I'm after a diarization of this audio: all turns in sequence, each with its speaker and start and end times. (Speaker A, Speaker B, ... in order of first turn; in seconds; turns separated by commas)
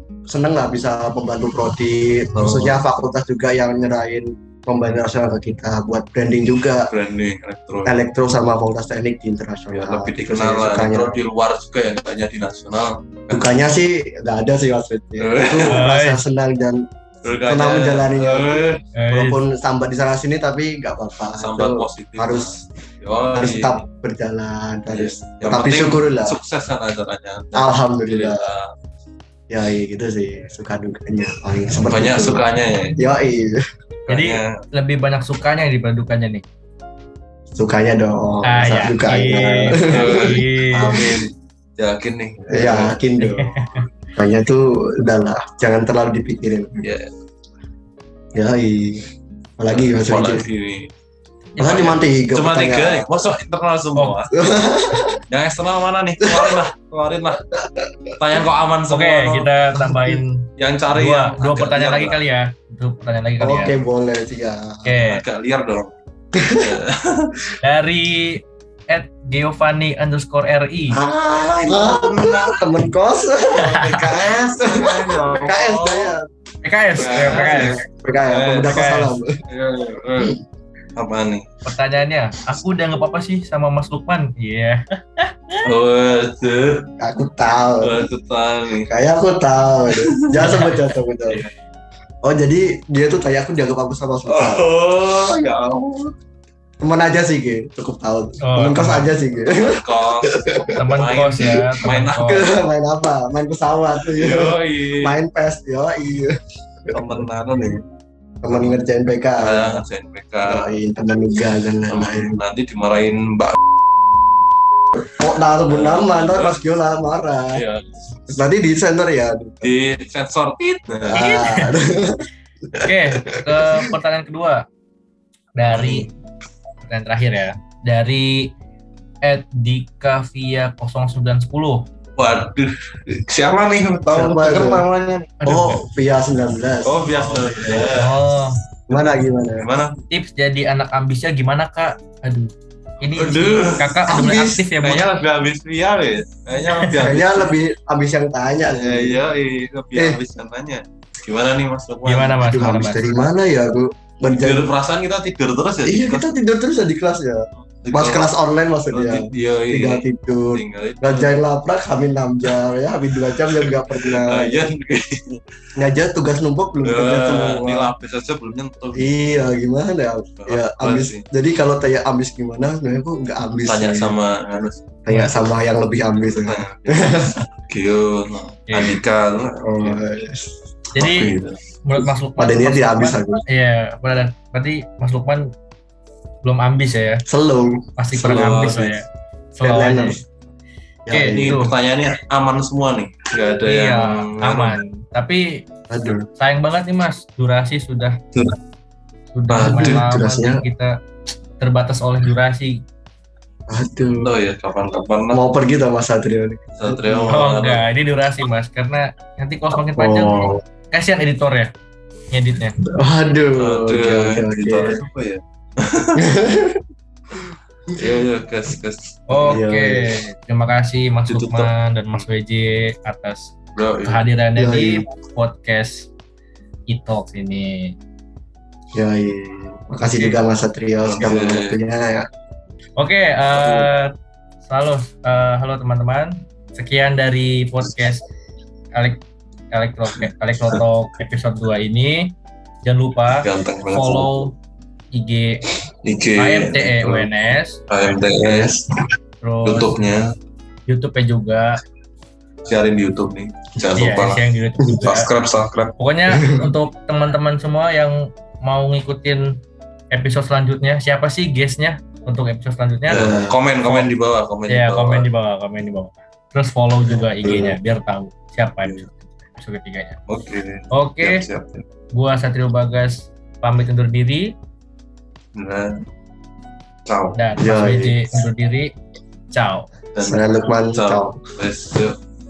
Speaker A: 0.3-6.9, Speaker B: 2.4-2.8, Speaker B: 6.9-8.0, Speaker A: 7.8-11.2, Speaker B: 9.7-13.6, Speaker A: 13.3-16.8, Speaker B: 15.2-15.8, Speaker C: 15.7-16.2, Speaker B: 17.2-18.8, Speaker A: 17.4-22.6, Speaker C: 18.9-19.4, Speaker B: 21.4-23.8, Speaker A: 23.3-26.4, Speaker B: 24.9-28.7, Speaker A: 27.5-28.4, Speaker A: 29.5-32.4, Speaker B: 31.8-33.0, Speaker A: 33.0-33.6, Speaker B: 34.1-34.5, Speaker C: 34.1-36.4, Speaker A: 37.5-41.1, Speaker C: 38.4-41.1, Speaker B: 39.8-43.0, Speaker A: 42.5-43.6, Speaker C: 43.2-43.9, Speaker A: 44.2-46.8, Speaker B: 46.8-47.1, Speaker A: 48.4-49.1, Speaker A: 49.6-50.5, Speaker B: 49.7-50.9, Speaker C: 51.6-52.0, Speaker A: 51.6-53.1, Speaker B: 51.6-54.5, Speaker C: 54.0-54.2, Speaker A: 54.3-55.2, Speaker B: 55.3-57.4, Speaker A: 56.2-56.6, Speaker A: 57.6-58.1, Speaker B: 58.2-59.5, Speaker C: 58.9-63.8, Speaker A: 59.8-60.2, Speaker B: 60.6-62.2, Speaker A: 63.4-65.0, Speaker C: 64.8-65.2, Speaker B: 65.0-65.9, Speaker A: 66.3-66.7, Speaker B: 66.6-67.5, Speaker C: 67.6-71.0, Speaker B: 70.9-72.7, Speaker A: 71.6-76.3, Speaker B: 73.5-76.2, Speaker C: 76.6-77.8, Speaker B: 77.0-78.9, Speaker A: 77.0-79.3, Speaker C: 78.7-79.1, Speaker B: 79.5-80.4, Speaker B: 81.0-81.5, Speaker C: 81.7-85.6, Speaker B: 85.6-86.9, Speaker A: 87.0-88.0, Speaker B: 87.8-88.9, Speaker A: 88.9-91.4, Speaker B: 90.0-91.5, Speaker A: 92.2-94.7, Speaker B: 94.3-96.1, Speaker A: 96.8-107.1, Speaker C: 98.4-99.1, Speaker B: 99.5-102.6, Speaker C: 100.8-102.5, Speaker B: 104.0-105.2, Speaker B: 106.9-107.8, Speaker A: 108.4-109.8, Speaker B: 108.5-108.8, Speaker B: 109.4-110.7, Speaker A: 110.4-112.4, Speaker B: 111.9-113.6, Speaker A: 115.1-117.6, Speaker B: 115.7-116.6, Speaker B: 117.5-118.5, Speaker A: 118.3-119.7, Speaker B: 119.6-121.3, Speaker A: 121.0-122.2, Speaker C: 121.1-121.8, Speaker C: 122.8-124.7, Speaker C: 125.5-126.1, Speaker B: 125.6-126.1, Speaker C: 126.8-128.5, Speaker C: 129.2-131.9, Speaker B: 132.2-135.4, Speaker A: 134.1-134.9, Speaker C: 135.4-135.8, Speaker A: 135.5-137.9, Speaker B: 136.8-138.2, Speaker C: 137.9-138.6, Speaker A: 138.9-139.7, Speaker B: 138.9-140.0, Speaker C: 140.1-145.1, Speaker B: 143.2-144.0, Speaker A: 144.1-144.7, Speaker B: 144.8-147.6, Speaker C: 146.8-147.1, Speaker A: 146.9-149.2, Speaker B: 148.7-152.5, Speaker A: 149.9-150.2, Speaker C: 152.1-153.3, Speaker A: 152.4-154.7, Speaker B: 154.3-156.3, Speaker A: 155.8-164.6, Speaker B: 157.6-158.3, Speaker B: 158.9-161.4, Speaker B: 163.5-165.4, Speaker A: 165.8-167.9, Speaker B: 166.8-169.5, Speaker A: 168.9-174.2, Speaker B: 170.4-171.2, Speaker B: 173.6-174.9, Speaker A: 175.1-177.3, Speaker C: 175.1-175.5, Speaker B: 176.2-180.0, Speaker C: 178.7-179.0, Speaker A: 179.6-180.5, Speaker B: 180.9-181.6, Speaker C: 180.9-185.5, Speaker A: 182.4-183.4, Speaker C: 186.4-187.2, Speaker A: 187.3-188.9, Speaker C: 188.0-190.2, Speaker B: 188.1-188.9, Speaker A: 189.6-190.2, Speaker A: 191.1-191.7, Speaker C: 191.1-191.7, Speaker B: 191.3-194.8, Speaker C: 193.6-195.6, Speaker A: 195.9-196.3, Speaker C: 196.4-198.2, Speaker C: 199.3-201.0, Speaker B: 199.5-200.1, Speaker A: 199.5-200.6, Speaker C: 201.6-202.8, Speaker A: 203.7-204.3, Speaker B: 204.2-205.4, Speaker A: 205.3-207.4, Speaker B: 206.8-207.9, Speaker C: 207.3-211.7, Speaker A: 210.0-210.6, Speaker C: 212.3-212.8, Speaker A: 212.8-215.0, Speaker B: 213.6-216.3, Speaker A: 216.2-216.8, Speaker B: 217.9-219.6, Speaker C: 219.3-226.1, Speaker A: 219.5-220.2, Speaker B: 221.3-222.2, Speaker B: 223.8-224.2, Speaker A: 224.6-225.1, Speaker C: 226.9-227.9, Speaker A: 228.9-232.2, Speaker B: 230.0-230.4, Speaker B: 231.1-231.8, Speaker C: 233.0-234.1, Speaker B: 233.5-233.9, Speaker C: 234.7-238.2, Speaker C: 238.9-242.3, Speaker B: 240.1-240.8, Speaker C: 242.8-244.6, Speaker B: 243.3-244.5, Speaker C: 245.1-245.6, Speaker B: 246.0-247.3, Speaker C: 246.4-247.8, Speaker B: 247.9-249.0, Speaker C: 249.4-250.0, Speaker B: 249.7-250.3, Speaker C: 250.9-251.8, Speaker B: 252.7-254.4, Speaker C: 253.9-255.3, Speaker B: 255.0-255.9, Speaker C: 256.0-259.4, Speaker A: 256.3-256.7, Speaker C: 260.1-263.4, Speaker B: 263.1-265.3, Speaker A: 263.1-263.6, Speaker C: 264.7-270.2, Speaker A: 267.1-267.8, Speaker B: 270.3-271.9, Speaker C: 270.9-271.4, Speaker C: 272.1-274.5, Speaker B: 275.6-276.0, Speaker B: 277.1-277.4, Speaker C: 277.4-278.9, Speaker A: 277.6-278.2, Speaker C: 279.5-279.9, Speaker B: 280.1-282.1, Speaker A: 280.2-281.4